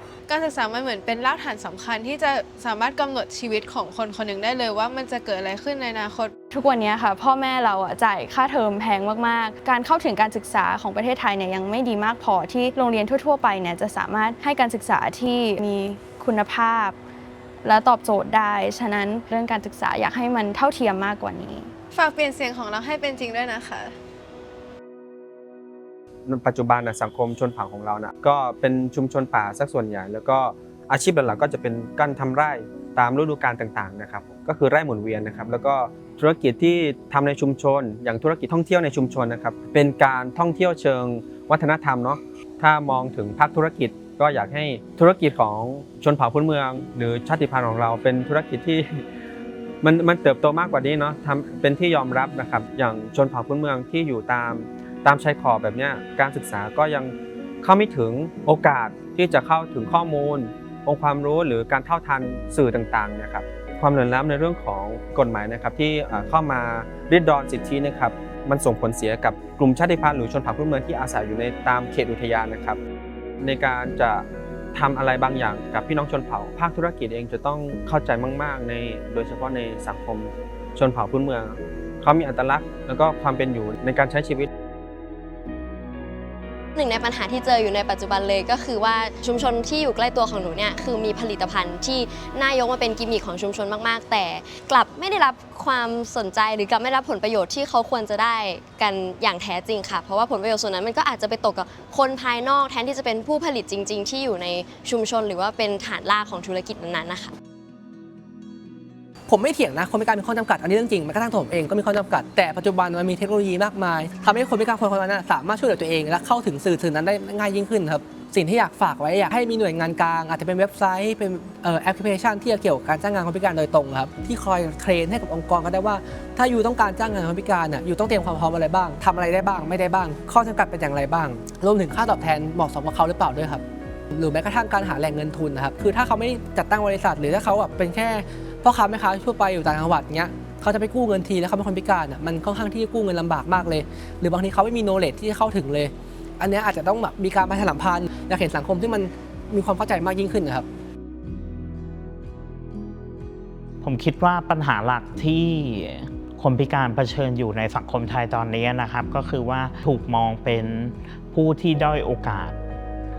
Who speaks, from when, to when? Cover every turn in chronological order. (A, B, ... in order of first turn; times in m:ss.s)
0:00.3-0:06.3 A
0:06.5-0:17.0 B
0:17.6-0:21.7 B
0:21.9-0:23.9 A
0:26.2-0:48.8 C
0:49.8-1:12.8 C
1:13.4-1:24.5 C
1:26.8-1:47.3 D
1:49.3-2:30.6 E
2:33.8-2:42.6 F